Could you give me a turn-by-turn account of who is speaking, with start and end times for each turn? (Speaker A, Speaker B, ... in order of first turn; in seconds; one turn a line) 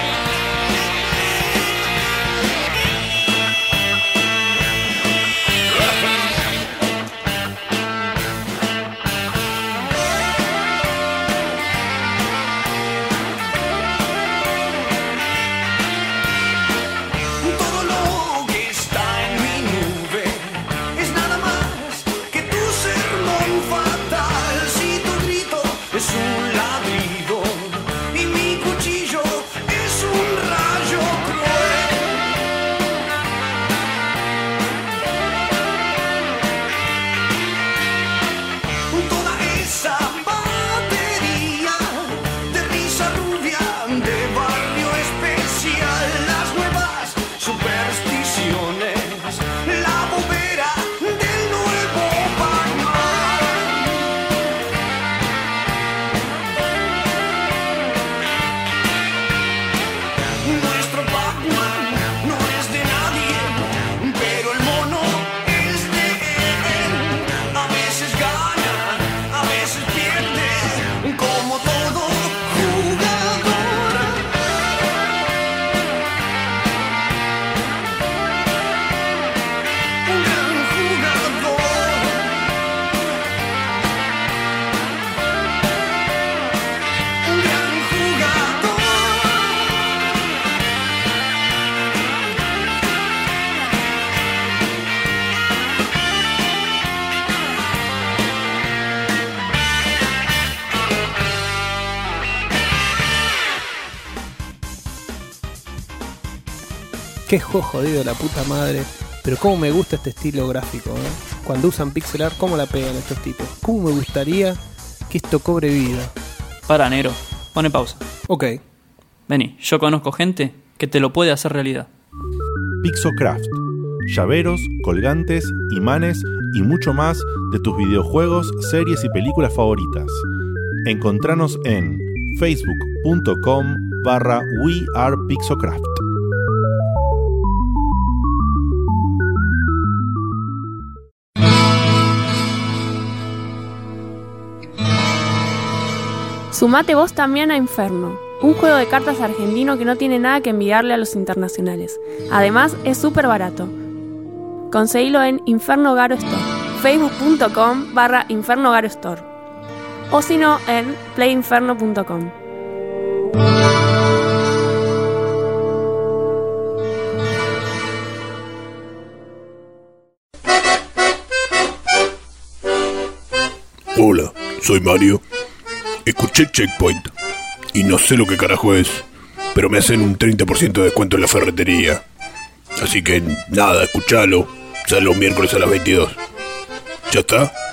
Speaker A: 17.4-32.2
Speaker A: 38.9-54.0
Speaker A: 60.4-74.2
Speaker A: 80.0-82.4
Speaker A: 87.2-89.8
Speaker B: 107.3-114.6
Speaker B: 115.1-116.1
Speaker C: 116.7-118.0
Speaker B: 118.3-118.6
Speaker C: 119.3-121.9
Speaker D: 122.8-130.2
Speaker D: 130.8-136.0
Speaker E: 146.5-153.7
Speaker E: 154.7-159.2
Speaker E: 160.1-162.3
Speaker F: 173.9-175.2
Speaker F: 176.0-177.1
Speaker F: 177.7-182.0
Speaker F: 182.8-186.2
Speaker F: 187.1-187.5